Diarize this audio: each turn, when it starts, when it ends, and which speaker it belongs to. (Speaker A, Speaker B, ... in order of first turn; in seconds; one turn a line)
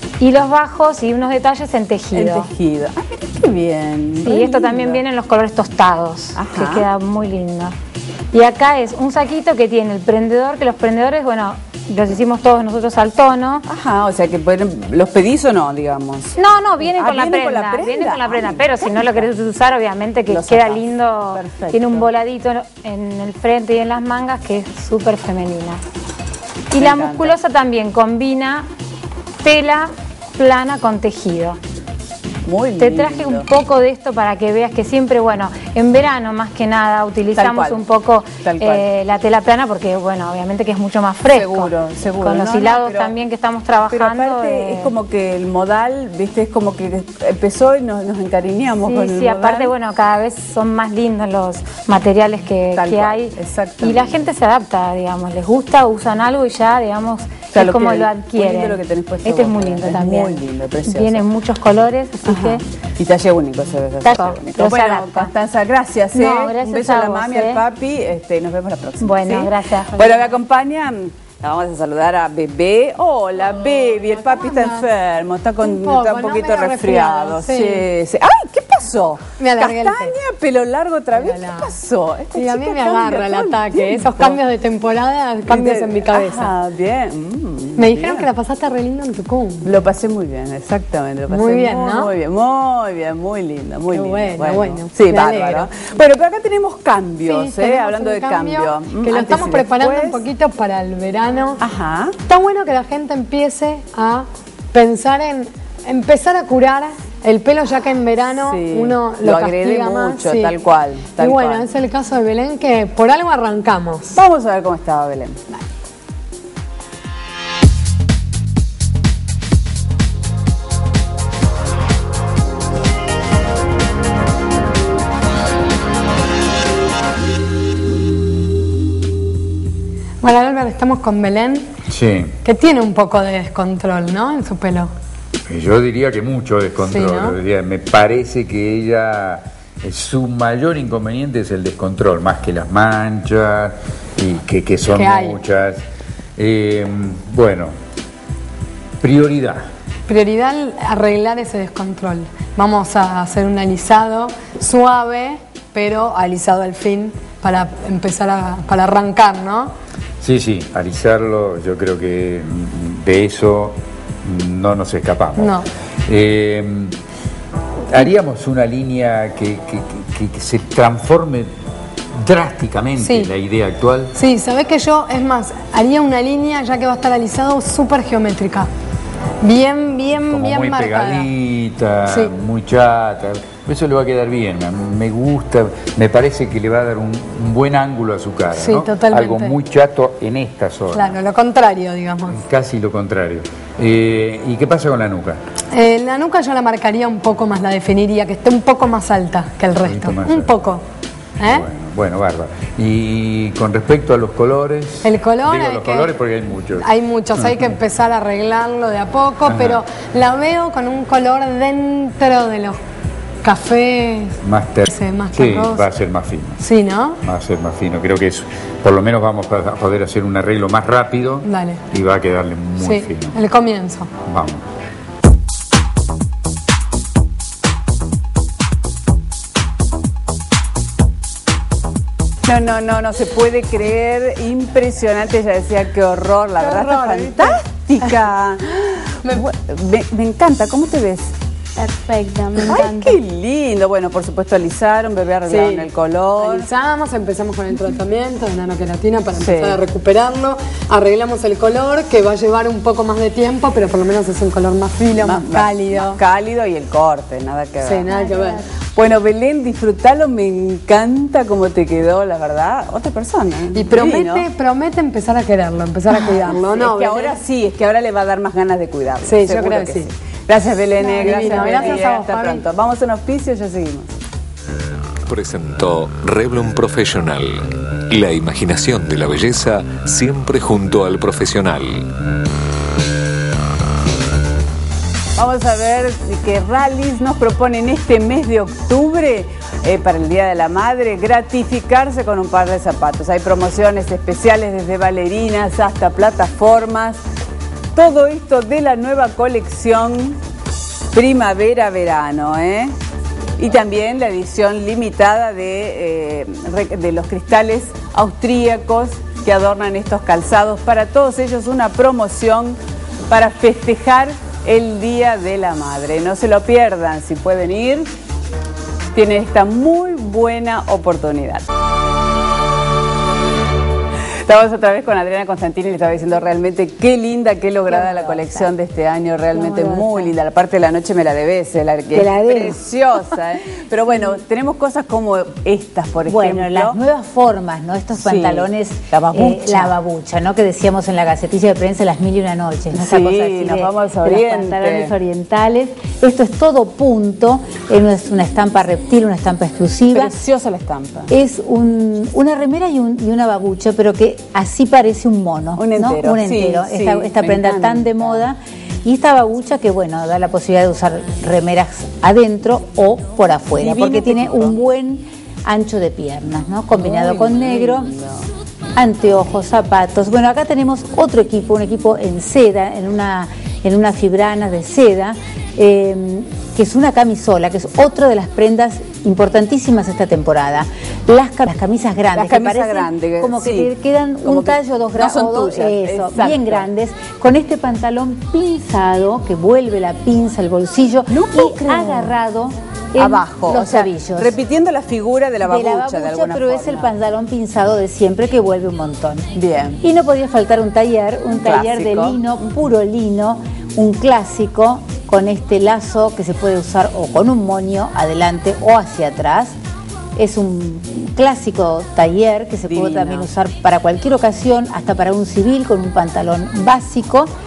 Speaker A: 0.2-2.5
Speaker B: 2.1-5.0
Speaker A: 4.2-7.7
Speaker B: 6.4-6.9
Speaker A: 8.3-13.7
Speaker B: 13.7-19.3
Speaker A: 16.4-25.8
Speaker B: 20.3-22.1
Speaker A: 26.7-28.7
Speaker B: 26.8-27.4
Speaker A: 29.4-31.6
Speaker B: 32.5-33.5
Speaker A: 32.8-44.9
Speaker B: 37.4-37.8
Speaker B: 38.4-38.9
Speaker B: 41.2-43.1
Speaker B: 43.9-49.7
Speaker A: 48.8-62.6
Speaker B: 52.8-54.2
Speaker B: 57.5-61.2
Speaker B: 62.2-84.4
Speaker A: 64.0-65.3
Speaker A: 66.1-67.6
Speaker A: 69.0-70.3
Speaker C: 74.3-74.8
Speaker C: 75.6-77.9
Speaker C: 79.4-80.2
Speaker C: 81.2-81.7
Speaker C: 82.3-86.5
Speaker B: 85.5-88.3
Speaker C: 87.8-89.7
Speaker B: 89.6-100.2
Speaker C: 91.3-92.1
Speaker C: 93.9-95.7
Speaker C: 97.2-101.6
Speaker B: 101.6-102.2
Speaker C: 102.3-110.5
Speaker B: 108.4-111.7
Speaker C: 111.2-114.1
Speaker B: 114.1-115.5
Speaker C: 130.2-131.7
Speaker D: 131.9-132.2
Speaker C: 132.4-134.9
Speaker D: 135.5-143.7
Speaker C: 136.8-137.3
Speaker D: 144.2-145.8
Speaker C: 144.9-145.4
Speaker D: 146.4-147.7
Speaker D: 149.0-149.6
Speaker C: 150.1-159.7
Speaker D: 160.2-163.7
Speaker D: 164.3-165.4
Speaker C: 165.4-165.7
Speaker D: 166.1-166.8
Speaker D: 168.0-171.5
Speaker D: 172.3-174.1
Speaker C: 173.0-173.3
Speaker C: 174.2-178.7
Speaker C: 179.4-181.3
Speaker D: 180.4-190.9
Speaker C: 182.1-182.3
Speaker C: 188.5-189.6
Speaker C: 190.9-192.4
Speaker D: 192.5-195.4
Speaker C: 195.7-200.8
Speaker D: 199.9-200.2
Speaker C: 201.4-201.7
Speaker D: 201.6-206.7
Speaker C: 205.0-206.2
Speaker C: 206.8-212.8
Speaker C: 213.4-215.9
Speaker D: 214.5-214.8
Speaker D: 215.4-216.6
Speaker C: 216.6-217.2
Speaker D: 217.3-223.3
Speaker C: 221.4-221.8
Speaker C: 222.8-224.1
Speaker D: 224.3-224.6
Speaker B: 232.5-241.3
Speaker C: 236.6-237.6
Speaker C: 242.2-242.9
Speaker B: 242.6-246.7
Speaker C: 245.5-256.2
Speaker B: 249.4-249.8
Speaker B: 255.2-258.1
Speaker C: 257.8-258.6
Speaker B: 258.9-264.5
Speaker C: 263.7-267.4
Speaker B: 266.3-274.1
Speaker C: 269.2-270.1
Speaker C: 271.0-272.6
Speaker E: 275.3-282.1
Speaker B: 285.4-297.2
Speaker B: 298.0-300.4
Speaker B: 301.1-302.9
Speaker B: 303.6-312.8
Speaker B: 313.3-318.1
Speaker B: 319.1-321.7
Speaker B: 324.5-337.0
Speaker F: 327.9-328.7
Speaker F: 329.6-330.3
Speaker F: 332.1-332.8
Speaker F: 336.3-350.4
Speaker B: 338.2-339.9
Speaker B: 342.9-345.1
Speaker B: 350.1-351.3
Speaker F: 351.3-368.1
Speaker B: 355.8-358.5
Speaker B: 363.8-364.8
Speaker B: 366.9-368.5
Speaker F: 369.0-394.6
Speaker B: 382.3-383.9
Speaker B: 384.4-386.9
Speaker B: 391.3-392.4
Speaker B: 393.2-397.1
Speaker F: 395.6-409.7
Speaker B: 399.5-400.0
Speaker B: 401.5-402.4
Speaker F: 410.4-417.5
Speaker B: 412.9-413.5